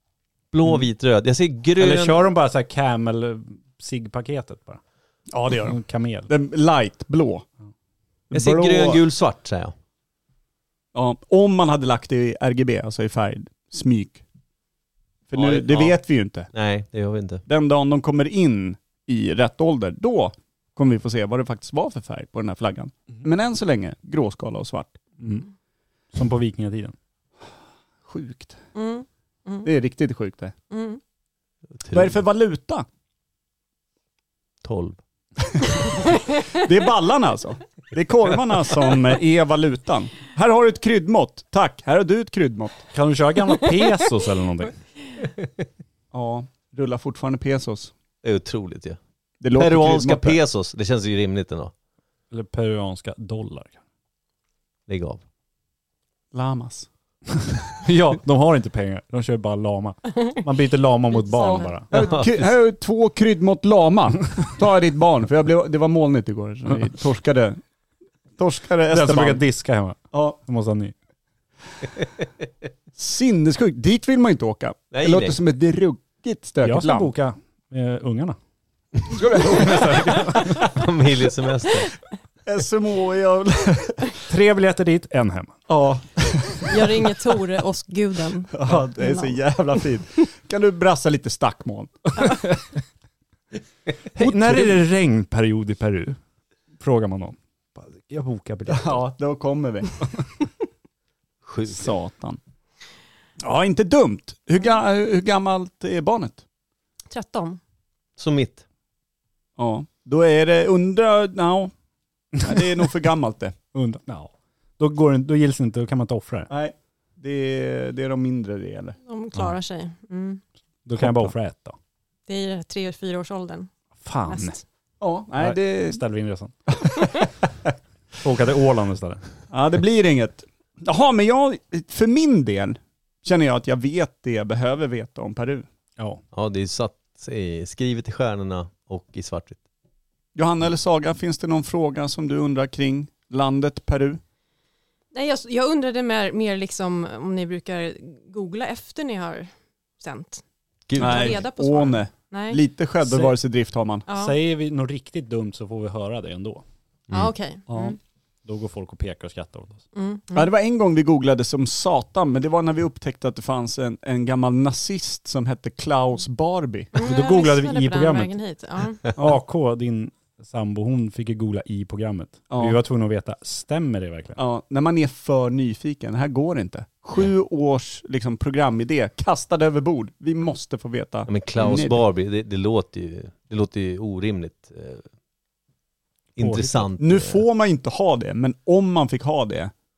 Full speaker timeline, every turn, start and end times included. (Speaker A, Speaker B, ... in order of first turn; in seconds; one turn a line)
Speaker A: 0.5-2.3
Speaker B: 1.8-4.8
Speaker C: 5.3-7.5
Speaker B: 5.7-6.3
Speaker C: 8.3-9.0
Speaker A: 8.3-9.8
Speaker C: 10.9-14.2
Speaker C: 15.3-16.5
Speaker A: 15.3-16.0
Speaker A: 16.5-17.4
Speaker C: 17.5-25.0
Speaker B: 25.2-25.5
Speaker B: 26.1-26.9
Speaker C: 28.1-28.6
Speaker D: 28.8-29.7
Speaker C: 29.6-30.5
Speaker D: 30.7-31.0
Speaker A: 31.8-32.2
Speaker C: 31.9-32.9
Speaker A: 34.6-35.0
Speaker C: 35.5-42.9
Speaker B: 42.9-44.8
Speaker C: 46.1-47.9
Speaker A: 48.2-49.0
Speaker C: 49.4-50.4
Speaker A: 49.5-51.7
Speaker B: 52.3-53.8
Speaker A: 54.9-55.2
Speaker C: 56.3-56.9
Speaker B: 57.8-61.9
Speaker D: 61.1-61.7
Speaker A: 61.9-62.3
Speaker C: 61.9-67.6
Speaker C: 68.4-69.4
Speaker B: 68.9-70.9
Speaker C: 70.1-70.4
Speaker C: 73.0-77.1
Speaker A: 74.9-75.4
Speaker B: 76.6-78.4
Speaker C: 79.1-80.5
Speaker B: 79.4-80.6
Speaker A: 79.6-81.9
Speaker C: 82.5-84.2
Speaker B: 84.3-85.6
Speaker C: 85.7-86.8
Speaker D: 86.7-89.4
Speaker C: 88.5-92.2
Speaker C: 94.2-94.8
Speaker B: 94.2-96.2
Speaker B: 96.8-99.0
Speaker C: 98.7-100.0
Speaker A: 101.4-101.9
Speaker C: 101.7-102.4
Speaker C: 103.4-106.4
Speaker D: 107.1-107.6
Speaker A: 108.2-108.6
Speaker C: 109.6-111.7
Speaker C: 112.4-113.5
Speaker B: 113.7-116.5
Speaker C: 116.5-119.0
Speaker D: 119.0-120.4
Speaker B: 120.9-121.8
Speaker C: 121.0-121.3
Speaker D: 122.3-123.7
Speaker B: 124.0-124.6
Speaker D: 124.3-124.6
Speaker C: 125.0-126.0
Speaker B: 125.4-127.3
Speaker B: 128.2-129.2
Speaker C: 129.5-135.7
Speaker A: 136.3-139.6
Speaker C: 140.3-144.2
Speaker D: 145.1-150.4
Speaker A: 150.9-151.4
Speaker D: 151.0-152.6
Speaker C: 151.0-154.1
Speaker B: 153.1-153.4
Speaker D: 154.1-154.3
Speaker B: 154.1-156.6
Speaker D: 157.1-158.0
Speaker B: 158.4-159.8
Speaker D: 159.9-160.5
Speaker C: 160.3-166.9
Speaker D: 166.9-169.0
Speaker B: 167.0-168.3
Speaker B: 169.1-174.4
Speaker C: 172.5-172.8
Speaker C: 174.4-182.0
Speaker A: 181.3-185.1
Speaker A: 186.4-187.4
Speaker B: 186.4-186.8
Speaker C: 187.0-189.7